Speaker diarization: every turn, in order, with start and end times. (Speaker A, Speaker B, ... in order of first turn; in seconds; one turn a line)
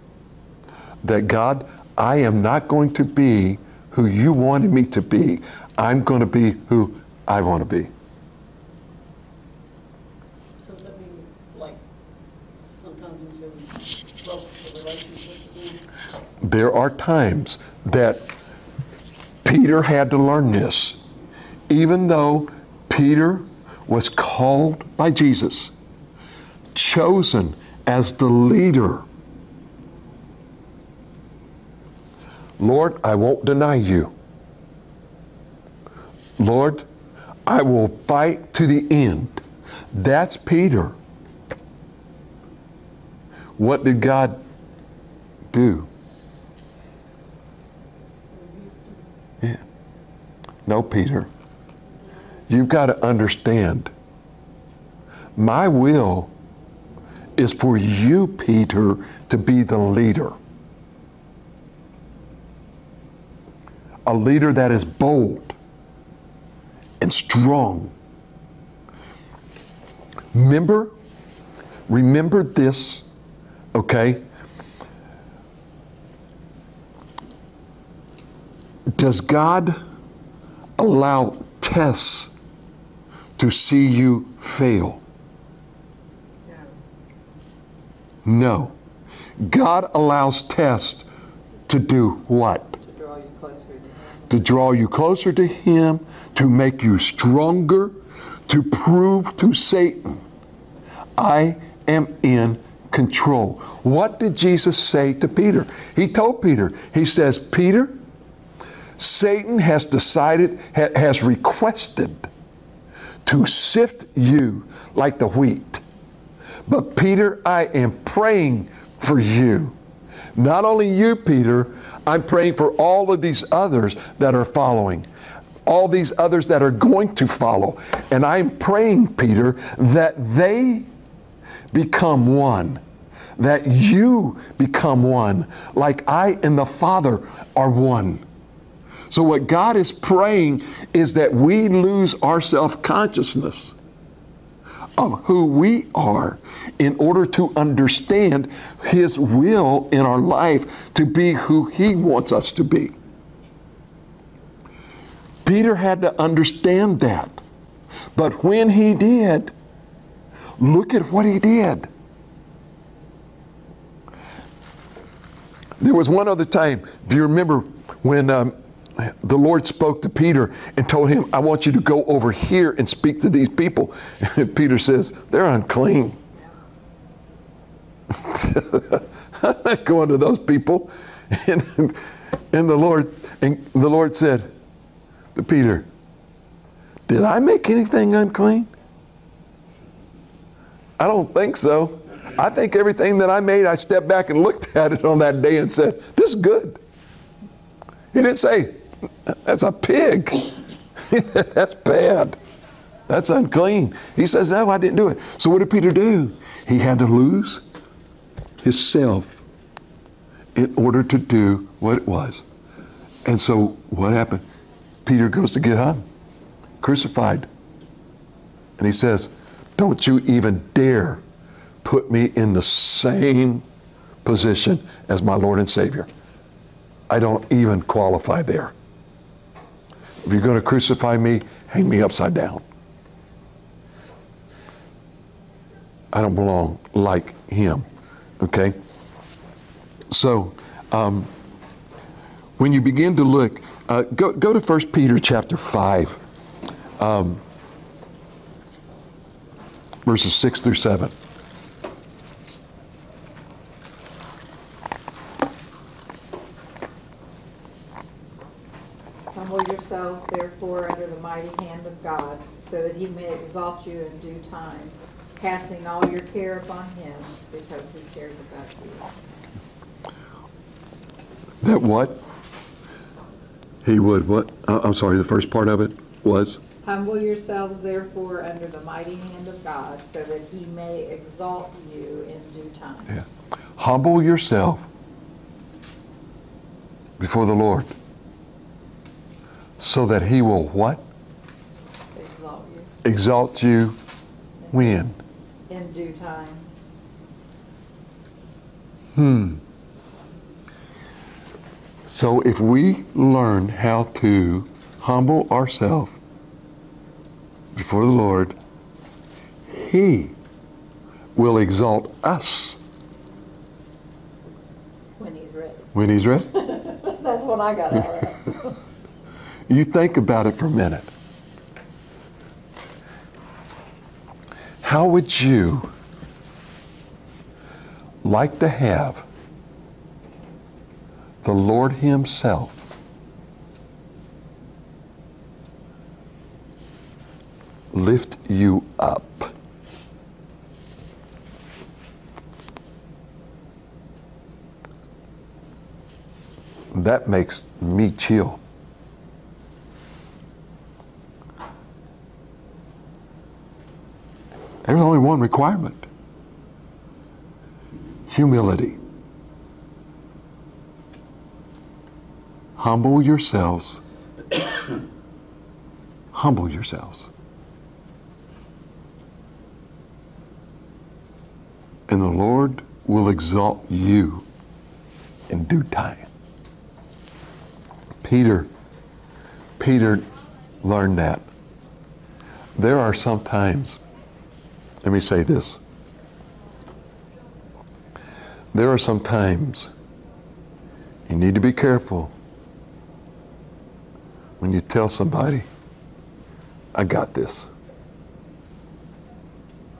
Speaker A: 1.0-7.9
Speaker B: 10.6-11.8
Speaker B: 12.6-15.8
Speaker A: 16.4-18.3
Speaker A: 19.4-21.0
Speaker A: 21.7-25.7
Speaker A: 26.7-29.0
Speaker A: 32.6-34.1
Speaker A: 36.4-36.8
Speaker A: 37.5-40.9
Speaker A: 43.6-44.4
Speaker A: 45.5-45.9
Speaker B: 48.3-49.1
Speaker A: 50.6-51.3
Speaker A: 52.5-53.9
Speaker A: 55.4-56.3
Speaker A: 57.4-60.4
Speaker A: 64.0-65.5
Speaker A: 67.0-67.9
Speaker A: 70.3-70.9
Speaker A: 71.9-73.0
Speaker A: 73.7-74.2
Speaker A: 78.9-79.8
Speaker A: 80.8-82.3
Speaker A: 83.4-85.0
Speaker A: 88.2-88.7
Speaker A: 89.4-91.0
Speaker A: 91.7-92.8
Speaker C: 92.8-94.5
Speaker A: 94.3-98.0
Speaker A: 98.5-100.2
Speaker A: 101.2-107.9
Speaker A: 109.0-112.3
Speaker A: 113.2-115.8
Speaker A: 116.7-119.7
Speaker A: 120.3-125.1
Speaker A: 125.6-130.9
Speaker A: 131.7-132.8
Speaker A: 133.4-138.2
Speaker A: 139.1-143.7
Speaker A: 145.0-152.9
Speaker A: 155.4-157.4
Speaker A: 158.1-159.5
Speaker A: 160.6-161.9
Speaker A: 165.8-176.2
Speaker A: 178.1-182.0
Speaker A: 182.5-184.5
Speaker A: 185.3-185.9
Speaker A: 187.1-188.7
Speaker A: 191.0-196.8
Speaker A: 198.1-202.3
Speaker A: 203.1-207.6
Speaker A: 208.6-209.4
Speaker A: 210.5-212.4
Speaker A: 213.2-214.4
Speaker A: 215.0-216.0
Speaker A: 216.8-217.5
Speaker A: 218.8-221.2
Speaker A: 221.8-223.6
Speaker A: 224.2-226.1
Speaker A: 227.1-228.7
Speaker A: 230.2-232.6
Speaker A: 236.1-237.8
Speaker A: 238.4-238.8
Speaker A: 240.1-241.3
Speaker A: 242.6-246.2
Speaker A: 247.0-247.4
Speaker A: 250.0-251.1
Speaker C: 259.3-269.1
Speaker A: 271.6-272.2
Speaker A: 273.8-276.6
Speaker C: 276.8-283.1
Speaker A: 283.8-284.9
Speaker A: 287.2-287.9
Speaker A: 289.8-291.0
Speaker C: 292.1-292.9
Speaker A: 293.0-294.0
Speaker C: 294.7-295.1
Speaker A: 294.7-295.1
Speaker C: 295.7-296.7
Speaker A: 299.1-299.6
Speaker A: 302.1-306.2
Speaker A: 307.7-308.5
Speaker A: 309.7-310.3
Speaker A: 311.4-312.8
Speaker C: 315.1-315.9
Speaker A: 315.9-316.5
Speaker C: 316.5-318.7
Speaker A: 319.7-321.1
Speaker A: 324.8-325.9
Speaker A: 328.2-329.2
Speaker A: 331.4-332.8
Speaker A: 337.9-339.5
Speaker A: 346.9-348.6
Speaker A: 354.8-356.0
Speaker A: 358.3-359.0
Speaker A: 362.8-364.0
Speaker A: 366.3-367.3
Speaker A: 372.1-374.4
Speaker A: 375.5-376.3
Speaker A: 378.2-378.7
Speaker A: 379.8-380.3
Speaker A: 380.8-381.4
Speaker A: 382.8-384.0
Speaker A: 385.0-385.8
Speaker A: 388.7-389.9
Speaker A: 391.3-392.3
Speaker A: 394.6-395.6
Speaker A: 396.9-397.7